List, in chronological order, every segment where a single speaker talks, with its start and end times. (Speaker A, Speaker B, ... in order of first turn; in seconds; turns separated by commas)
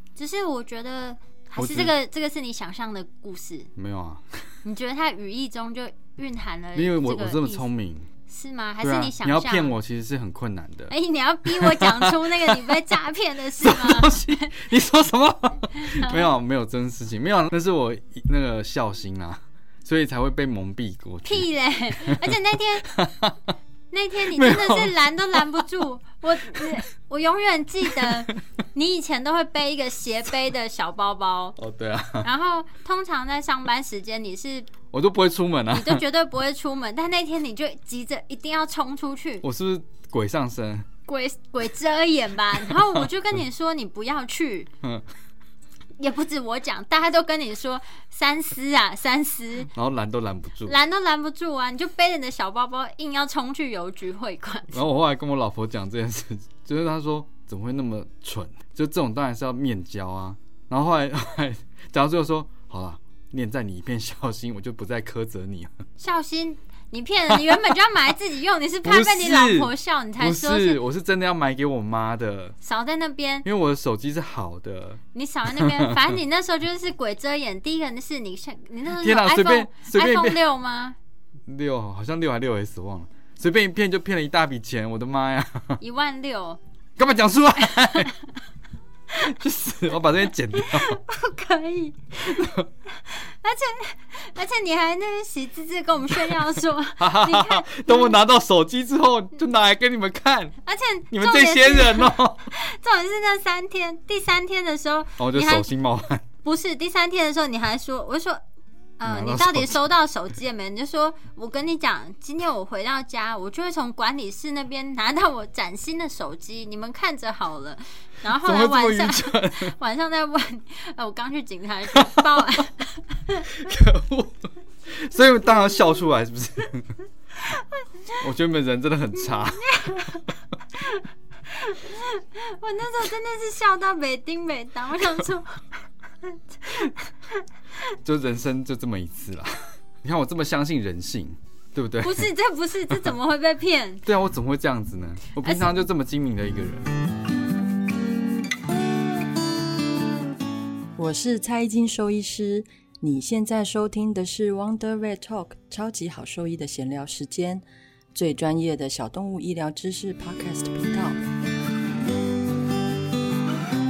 Speaker A: 0.1-3.7, Speaker B: 1.6-1.9, Speaker B: 3.7-4.4, Speaker A: 4.6-7.7, Speaker B: 6.7-8.1, Speaker A: 8.3-9.7, Speaker B: 8.8-10.9, Speaker A: 10.9-14.5, Speaker B: 11.4-12.9, Speaker B: 13.6-22.3, Speaker A: 15.7-16.3, Speaker A: 21.2-23.0, Speaker B: 22.9-23.4, Speaker A: 23.9-31.6, Speaker B: 24.2-25.6, Speaker B: 27.9-28.2, Speaker B: 31.6-32.3, Speaker A: 32.2-34.7, Speaker B: 34.9-36.0, Speaker A: 35.7-39.4, Speaker B: 39.4-40.9, Speaker A: 41.1-44.7, Speaker B: 42.7-43.1, Speaker B: 44.8-45.1, Speaker A: 46.0-49.7, Speaker B: 49.7-50.8, Speaker A: 50.6-54.8, Speaker B: 54.7-65.7, Speaker A: 66.0-70.8, Speaker B: 68.8-72.5, Speaker A: 72.6-73.5, Speaker B: 73.4-76.1, Speaker A: 75.1-81.0, Speaker B: 79.0-80.4, Speaker B: 81.5-85.8, Speaker A: 85.8-86.6, Speaker B: 87.0-88.1, Speaker A: 87.8-88.2, Speaker B: 89.1-91.0, Speaker A: 90.5-98.1, Speaker B: 92.2-92.7, Speaker B: 97.0-100.5, Speaker A: 100.6-105.7, Speaker B: 101.1-102.5, Speaker B: 105.2-106.2, Speaker A: 106.4-108.4, Speaker A: 109.0-123.6, Speaker B: 109.0-109.8, Speaker B: 118.3-119.7, Speaker B: 121.9-122.5, Speaker B: 123.5-127.0, Speaker A: 127.4-128.2, Speaker B: 128.2-130.2, Speaker A: 129.2-130.3, Speaker A: 130.8-135.6, Speaker A: 136.2-137.4, Speaker B: 138.0-142.3, Speaker A: 142.0-144.0, Speaker B: 144.0-146.9, Speaker C: 151.0-157.6, Speaker C: 158.1-161.2